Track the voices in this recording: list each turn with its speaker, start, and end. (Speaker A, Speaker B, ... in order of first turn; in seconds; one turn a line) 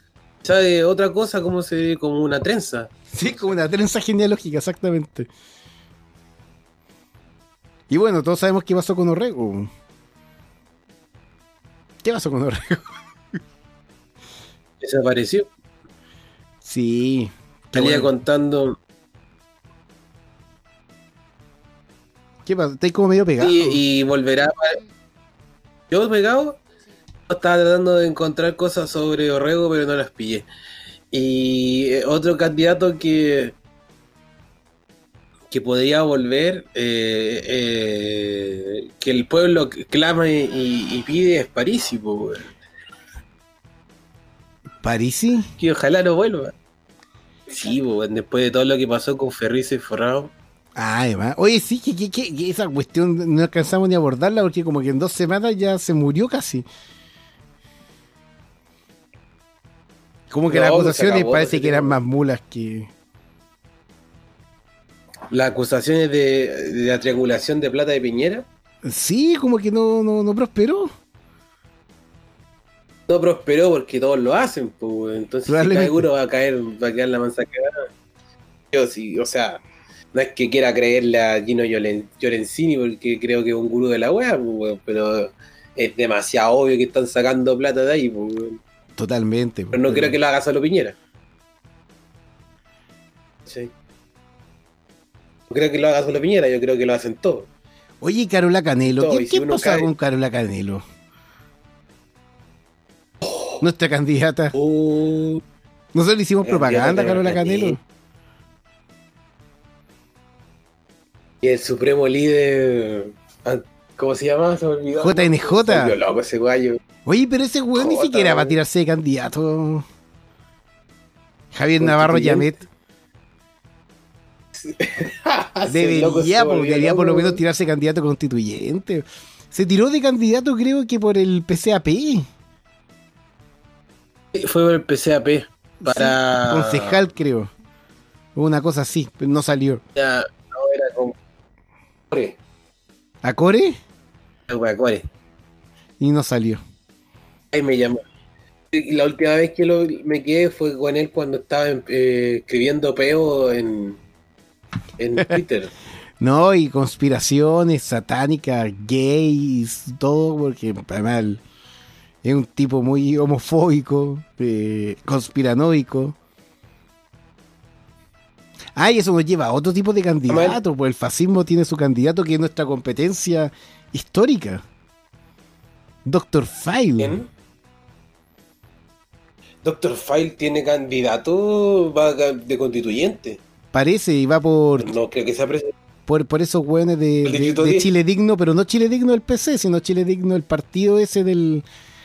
Speaker A: 0.4-3.6
Speaker B: 3.1-5.3
Speaker B: 7.9-9.7
Speaker B: 12.0-13.0
Speaker A: 14.8-15.5
Speaker B: 16.6-18.1
Speaker A: 17.7-18.8
Speaker B: 22.5-23.8
Speaker A: 23.4-24.8
Speaker A: 25.9-26.6
Speaker A: 27.3-30.5
Speaker A: 31.1-33.6
Speaker A: 35.5-42.5
Speaker B: 44.8-45.5
Speaker A: 45.6-46.5
Speaker A: 47.5-50.3
Speaker B: 50.8-56.7
Speaker B: 60.3-62.9
Speaker A: 60.5-62.0
Speaker A: 65.3-68.5
Speaker B: 68.8-70.9
Speaker A: 73.1-77.9
Speaker B: 75.5-76.1
Speaker A: 78.7-79.6
Speaker A: 80.1-88.6
Speaker B: 89.0-90.2
Speaker A: 89.7-91.0
Speaker A: 93.5-93.7
Speaker A: 95.5-97.5
Speaker B: 98.0-100.8
Speaker A: 98.8-99.9
Speaker B: 103.6-104.5
Speaker A: 104.5-105.4
Speaker B: 105.9-107.8
Speaker A: 106.5-107.8
Speaker A: 111.4-116.8
Speaker B: 115.0-116.0
Speaker B: 117.0-119.9
Speaker A: 117.8-118.6
Speaker B: 121.5-122.6
Speaker A: 121.8-122.6
Speaker A: 124.6-127.4
Speaker B: 125.7-132.3
Speaker A: 134.3-137.0
Speaker B: 135.8-137.5
Speaker B: 138.3-139.8
Speaker A: 140.0-141.2
Speaker A: 142.1-142.4
Speaker B: 143.2-143.8
Speaker A: 144.5-145.1
Speaker B: 146.0-146.6
Speaker A: 147.5-148.0
Speaker A: 148.7-154.0
Speaker A: 155.0-155.7
Speaker B: 156.2-161.4
Speaker B: 162.2-166.2
Speaker B: 168.8-174.6
Speaker A: 170.3-170.6
Speaker B: 176.1-177.2
Speaker A: 177.0-177.3
Speaker A: 179.6-183.4
Speaker B: 183.7-184.9
Speaker A: 184.8-185.7
Speaker B: 186.1-191.7
Speaker A: 187.2-187.9